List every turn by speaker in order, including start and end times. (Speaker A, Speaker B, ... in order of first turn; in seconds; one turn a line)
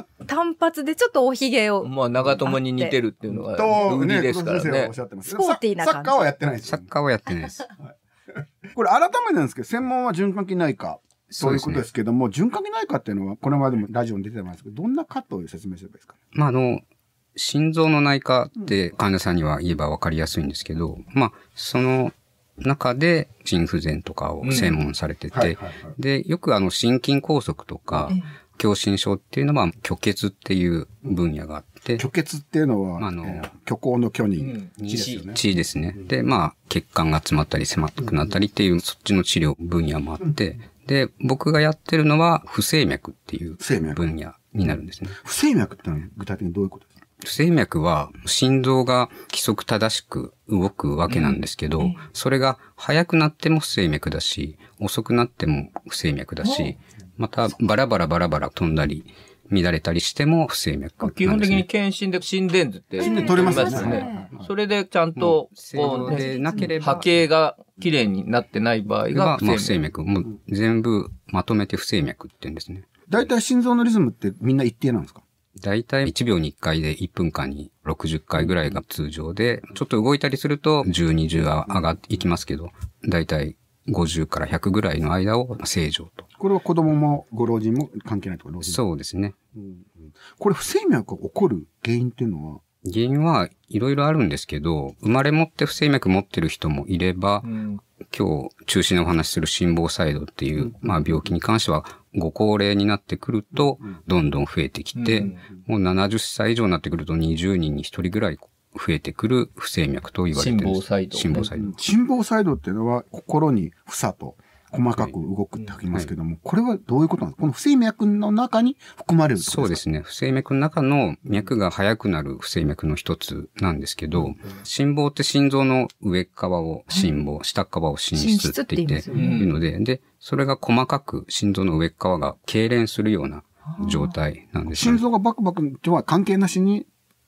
Speaker A: 0.2-3.0
Speaker B: 1.8-4.9
Speaker C: 3.3-6.9
Speaker A: 5.2-6.3
Speaker D: 6.6-7.7
Speaker C: 8.7-16.1
Speaker D: 11.3-11.8
Speaker D: 16.3-16.8
Speaker D: 17.3-32.0
Speaker B: 24.4-24.8
Speaker C: 25.3-25.9
Speaker C: 32.0-35.4
Speaker D: 33.0-33.5
Speaker B: 34.4-35.2
Speaker D: 34.8-45.2
Speaker C: 43.6-44.0
Speaker C: 45.1-46.9
Speaker D: 47.2-61.6
Speaker B: 51.1-51.4
Speaker A: 56.4-56.7
Speaker B: 61.0-69.8
Speaker C: 63.0-64.5
Speaker A: 63.0-64.3
Speaker D: 63.5-63.9
Speaker D: 65.2-67.2
Speaker A: 65.8-66.8
Speaker D: 69.1-72.9
Speaker C: 73.1-75.2
Speaker D: 75.6-86.3
Speaker C: 86.4-88.8
Speaker D: 88.6-89.3
Speaker C: 89.5-92.6
Speaker D: 92.8-97.5
Speaker B: 97.4-97.8
Speaker D: 98.0-111.8
Speaker B: 105.0-105.4
Speaker B: 110.3-111.5
Speaker C: 111.6-119.8
Speaker D: 119.4-135.0
Speaker A: 128.1-129.1
Speaker C: 129.1-129.4
Speaker B: 129.1-129.5
Speaker A: 133.7-134.1
Speaker C: 134.6-136.9